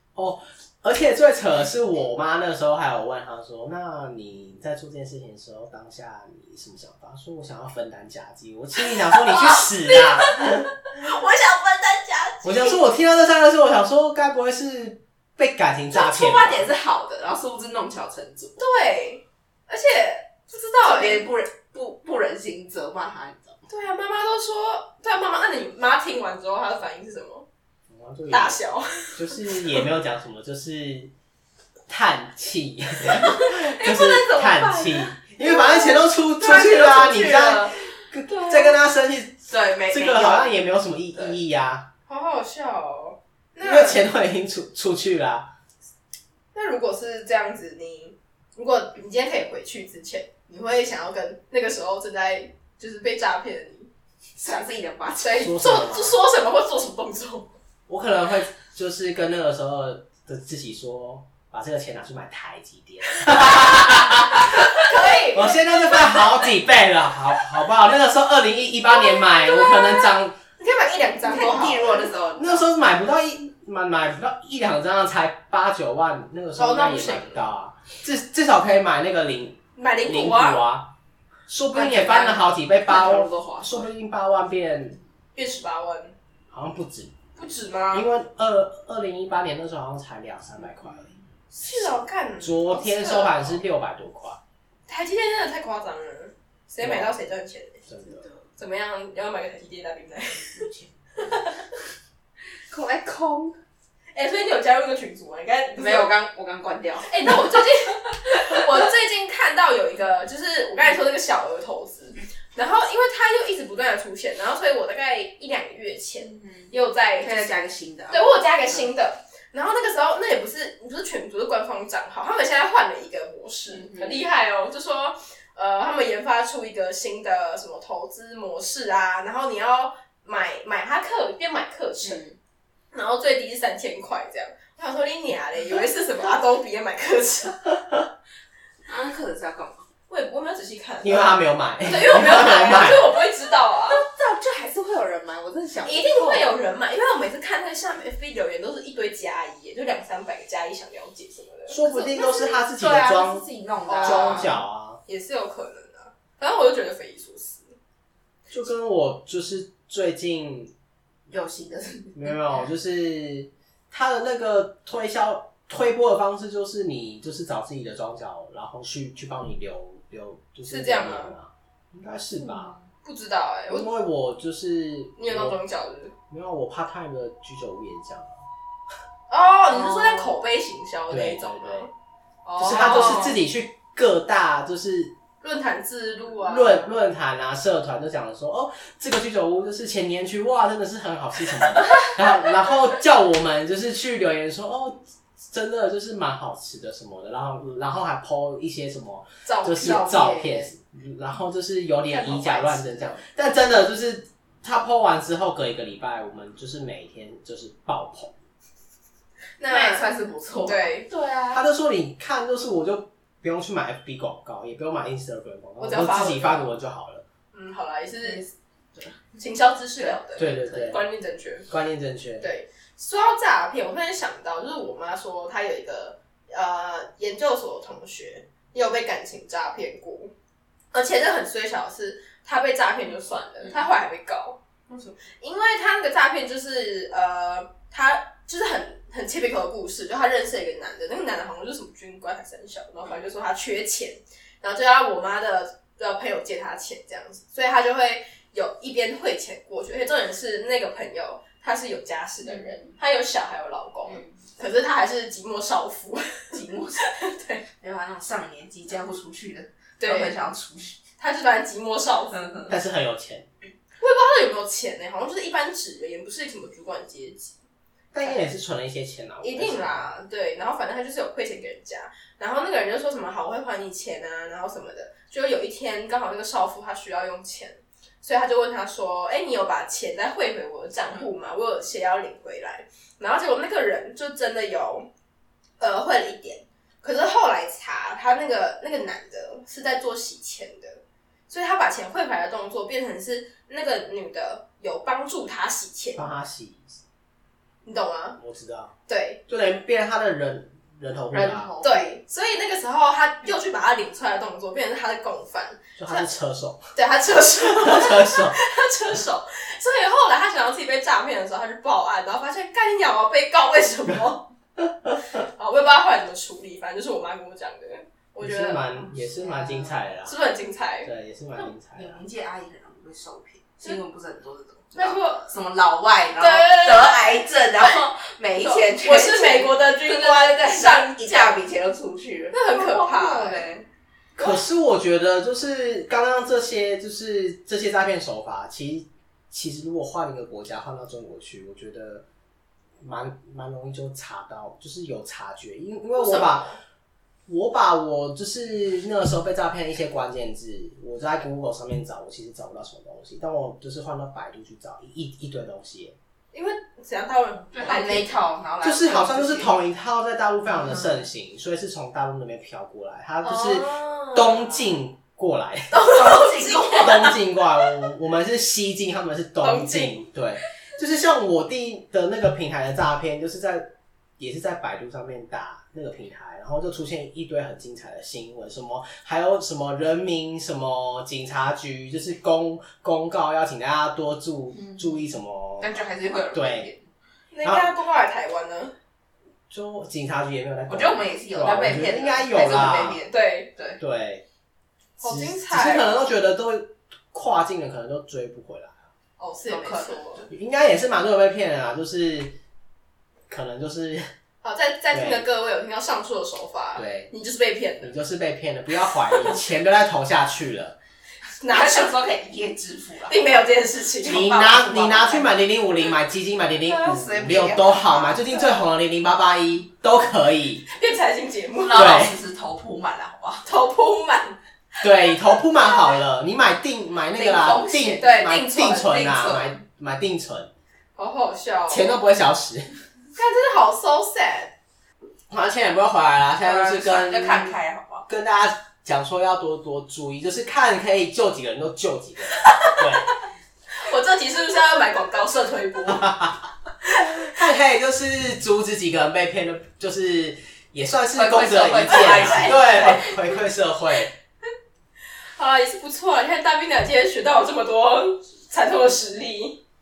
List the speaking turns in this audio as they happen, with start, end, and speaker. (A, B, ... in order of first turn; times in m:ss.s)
0:00.2-0:10.7 A
0:10.9-0:12.8 B
0:12.4-0:16.7 A
0:15.9-0:18.6 B
0:18.6-0:21.3 C
0:20.8-0:23.6 B
0:23.7-0:27.5 C
0:27.9-0:28.6 A
0:28.3-0:29.8 C
0:29.2-0:31.1 A
0:31.9-0:41.9 A
0:33.0-0:38.8 B
0:39.5-0:40.6 B
0:42.1-0:44.0 C
0:43.6-0:45.5 A
0:46.5-0:53.9 C
0:54.4-0:55.6 B
0:55.2-0:57.6 C
0:55.4-0:56.2 A
0:57.9-1:10.4 A
1:04.4-1:06.2 C
1:08.8-1:12.1 C
1:11.2-1:12.7 B
1:12.4-1:20.9 A
1:16.6-1:17.4 C
1:19.8-1:20.6 C
1:21.5-1:25.0 A
1:21.7-1:23.9 B
1:25.4-1:26.2 C
1:26.5-1:27.2 A
1:27.4-1:28.1 C
1:27.9-1:31.1 A
1:31.5-1:33.6 C
1:31.7-1:34.4 A
1:34.9-1:37.8 C
1:36.8-1:37.1 A
1:37.9-1:38.3 A
1:38.1-1:38.4 B
1:38.6-1:41.8 C
1:40.6-1:40.9 B
1:42.7-1:43.6 B
1:44.1-1:46.1 C
1:45.8-1:47.6 B
1:47.0-1:57.5 C
1:56.2-1:58.9 B
1:58.1-2:12.2 C
2:03.7-2:04.3 B
2:12.0-2:12.4 B
2:12.9-2:17.8 C
2:18.9-2:19.8 B
2:20.1-2:24.0 C
2:21.0-2:23.0 A
2:23.9-2:26.5 B
2:25.8-2:32.5 C
2:31.7-2:33.5 A
2:32.3-2:34.5 B
2:33.9-2:37.7 C
2:34.0-2:35.0 A
2:38.5-2:40.7 A
2:41.3-2:42.3 B
2:42.1-2:52.8 A
2:50.7-2:51.4 C
2:52.4-2:52.8 B
2:53.0-2:53.9 C
2:53.7-2:55.6 A
2:55.2-2:56.1 C
2:56.3-2:58.4 A
2:59.3-3:01.9 C
3:01.1-3:01.9 A
3:02.4-3:03.4 C
3:02.6-3:05.2 A
3:05.4-3:06.9 C
3:06.4-3:28.4 A
3:19.5-3:20.4 C
3:19.8-3:20.7 B
3:22.1-3:23.2 C
3:29.6-3:31.1 C
3:29.7-3:31.6 B
3:31.5-3:37.2 A
3:35.8-3:36.7 C
3:37.5-3:38.4 C
3:38.2-3:39.4 B
3:39.4-3:41.7 C
3:40.0-3:41.0 B
3:40.4-3:41.0 A
3:41.7-3:42.5 A
3:42.4-3:50.3 C
3:50.9-4:17.6 C
4:12.4-4:12.9 B
4:14.1-4:14.4 B
4:16.5-4:17.1 B
4:17.8-4:21.0 B
4:20.0-4:20.4 C
4:21.2-4:22.8 C
4:22.3-4:22.8 B
4:22.7-4:23.5 A
4:24.0-4:27.6 C
4:28.1-4:30.1 A
4:28.2-4:28.5 C
4:29.4-4:45.1 C
4:45.8-4:56.3 C
4:56.2-4:57.0 A
4:57.8-4:58.4 C
4:58.4-4:58.9 A
4:59.1-4:59.4 C
4:59.5-5:01.7 A
5:01.3-5:02.2 B
5:01.8-5:06.3 C
5:06.0-5:06.8 A
5:07.0-5:14.5 C
5:07.3-5:08.6 A
5:15.4-5:19.1 C
5:18.4-5:20.4 A
5:19.4-5:19.9 B
5:20.2-5:21.1 C
5:21.0-5:22.2 A
5:22.0-5:33.9 B
5:25.0-5:25.5 C
5:26.4-5:27.4 C
5:28.6-5:31.6 C
5:32.5-5:33.7 C
5:34.4-5:42.3 A
5:43.0-5:46.7 A
5:46.2-5:46.8 C
5:47.5-5:56.2 A
5:56.5-5:58.3 C
5:57.7-5:59.7 B
5:58.8-6:26.0 A
6:03.4-6:04.9 C
6:05.9-6:07.4 C
6:06.1-6:07.1 B
6:09.6-6:10.3 C
6:24.8-6:25.2 B
6:25.8-6:27.0 B
6:26.5-6:26.9 A
6:27.5-6:28.9 C
6:27.6-6:27.9 A
6:29.7-6:33.2 A
6:30.9-6:34.0 B
6:33.3-6:33.7 C
6:34.0-6:34.4 A
6:35.2-6:36.2 C
6:35.2-6:39.1 A
6:39.4-6:40.5 C
6:39.7-6:40.5 B
6:40.5-6:42.6 A
6:43.5-6:44.2 A
6:44.6-6:48.2 C
6:45.1-6:45.5 A
6:47.0-6:47.3 A
6:48.0-6:51.0 A
6:49.3-6:49.6 C
6:51.6-6:52.2 C
6:51.7-6:55.5 B
6:53.3-6:54.5 C
6:54.2-7:00.8 A
6:56.8-6:58.6 B
7:00.9-7:02.2 C
7:01.8-7:03.7 B
7:01.9-7:02.3 A
7:03.6-7:05.3 C
7:05.0-7:10.7 A
7:05.8-7:06.1 C
7:07.3-7:09.8 B
7:08.2-7:09.3 C
7:11.2-7:12.2 C
7:11.9-7:12.9 A
7:13.4-7:14.8 C
7:15.5-7:17.8 A
7:16.6-7:18.3 B
7:18.3-7:23.3 A
7:22.6-7:23.1 C
7:24.0-7:26.3 C
7:26.1-7:26.6 A
7:27.2-7:34.3 A
7:31.3-7:33.6 B
7:32.2-7:33.1 C
7:35.6-7:39.8 C